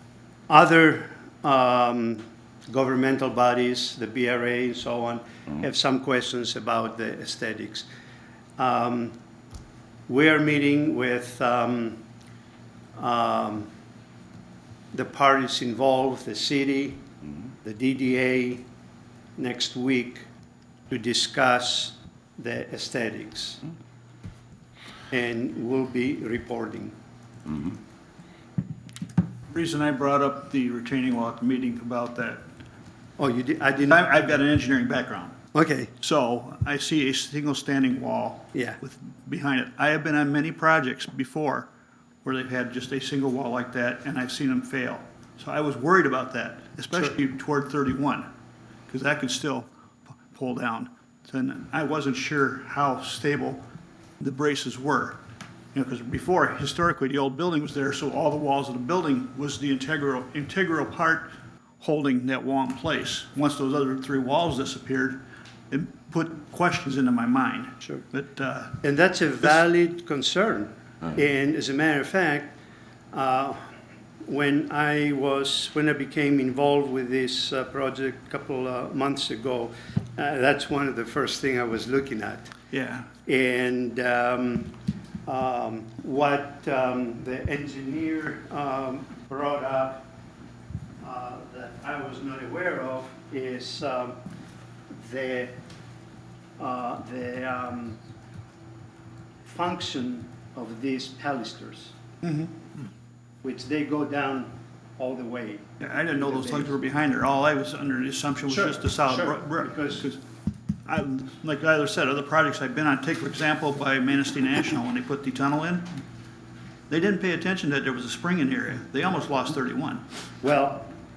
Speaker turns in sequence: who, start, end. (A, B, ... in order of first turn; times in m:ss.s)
0:00.5-0:07.9 A
0:08.6-0:09.2 A
0:10.1-0:12.0 A
0:13.0-0:13.7 A
0:14.9-0:17.1 A
0:17.6-0:18.6 A
0:19.4-0:20.2 A
0:20.9-0:23.6 A
0:25.1-0:26.9 A
0:29.5-0:32.4 B
0:33.2-0:34.0 A
0:33.8-0:35.4 B
0:35.5-0:35.9 A
0:36.0-0:41.7 B
0:38.5-0:38.8 A
0:42.2-0:48.3 B
0:48.9-0:49.7 B
0:50.3-0:53.6 B
0:54.2-0:55.2 B
0:55.7-1:01.3 B
1:01.8-1:08.8 B
1:08.8-1:12.6 A
1:13.1-1:13.7 A
1:14.2-1:22.5 A
1:22.7-1:23.1 B
1:23.2-1:24.7 A
1:25.3-1:30.1 A
1:31.0-1:34.2 A
1:34.9-1:35.5 A
1:36.6-1:38.0 A
1:39.4-1:42.0 A
1:42.2-1:42.5 B
1:43.4-1:46.7 A
1:45.8-1:50.2 B
1:48.5-1:50.1 A
1:50.8-1:55.9 B
1:56.9-2:00.0 B
2:00.4-2:00.9 A